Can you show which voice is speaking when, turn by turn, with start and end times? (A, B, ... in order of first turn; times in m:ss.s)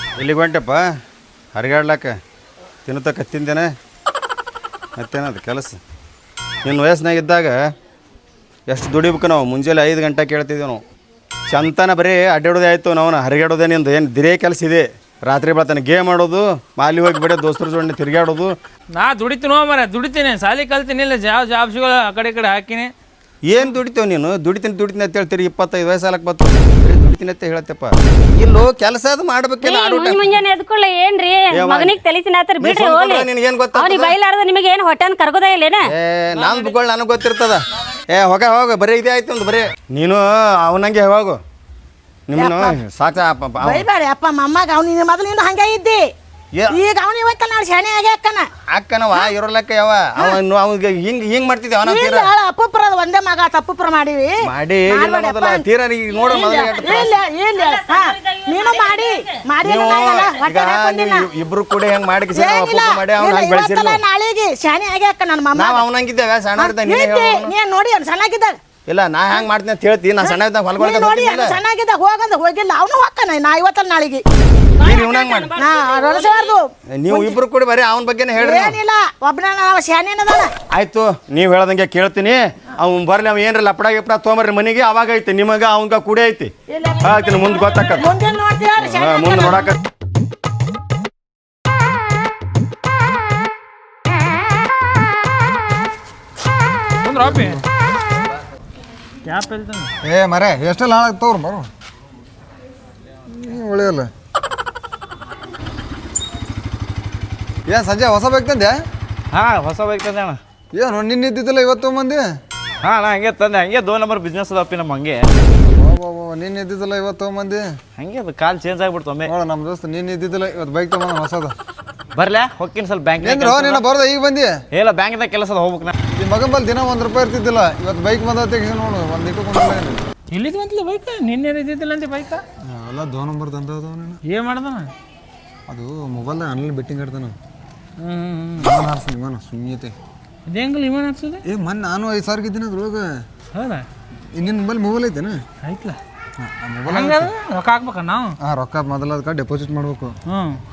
0:00.2-0:00.9 A
0:01.5-0:02.2 A
0:02.8-0:03.7 A
0:05.0-0:05.8 A
0:06.6-0:07.6 A
0:08.7-0:10.8 A
0:11.5-0:18.5 A
0:19.0-0:22.9 B
0:23.4-0:30.4 A
0:29.6-0:35.8 C
0:31.5-0:32.0 A
0:32.6-0:34.1 A
0:35.9-0:41.4 A
0:42.3-0:43.8 A
0:42.3-0:42.8 D
0:43.6-0:46.0 D
0:46.7-0:48.5 D
0:48.7-0:52.3 A
0:51.8-0:54.3 D
0:54.4-0:57.2 A
0:54.9-0:55.6 D
0:56.1-0:57.0 C
0:56.3-1:01.2 D
0:57.5-0:59.3 C
0:59.6-1:04.0 A
1:02.3-1:05.8 D
1:05.5-1:07.5 A
1:06.6-1:08.6 D
1:08.9-1:11.6 A
1:10.2-1:14.2 D
1:14.8-1:16.5 C
1:14.8-1:15.5 A
1:15.6-1:17.4 D
1:17.0-1:18.7 A
1:18.3-1:20.5 D
1:20.7-1:26.5 A
1:26.7-1:29.7 D
1:27.0-1:28.0 A
1:28.8-1:29.8 A
1:37.0-1:37.6 B
1:37.2-1:37.6 E
1:39.2-1:39.9 B
1:40.0-1:41.7 E
1:43.3-1:44.1 E
1:47.7-1:48.8 E
1:49.3-1:50.4 F
1:50.7-1:52.2 E
1:52.8-1:55.2 F
1:55.6-1:57.7 E
1:58.0-1:59.3 F
1:59.2-2:01.5 E
2:02.1-2:03.8 F
2:03.2-2:04.5 E
2:04.7-2:05.9 F
2:06.1-2:10.0 E
2:10.3-2:12.4 B
2:12.6-2:14.2 E
2:14.3-2:14.9 B
2:15.7-2:17.4 E
2:18.0-2:18.8 B
2:18.6-2:19.9 E
2:20.5-2:21.4 B
2:21.4-2:23.0 E
2:23.5-2:23.8 B
2:24.4-2:25.4 E
2:25.6-2:26.0 B
2:26.4-2:27.3 E
2:26.8-2:28.4 B
2:28.4-2:30.1 E
2:30.3-2:30.6 B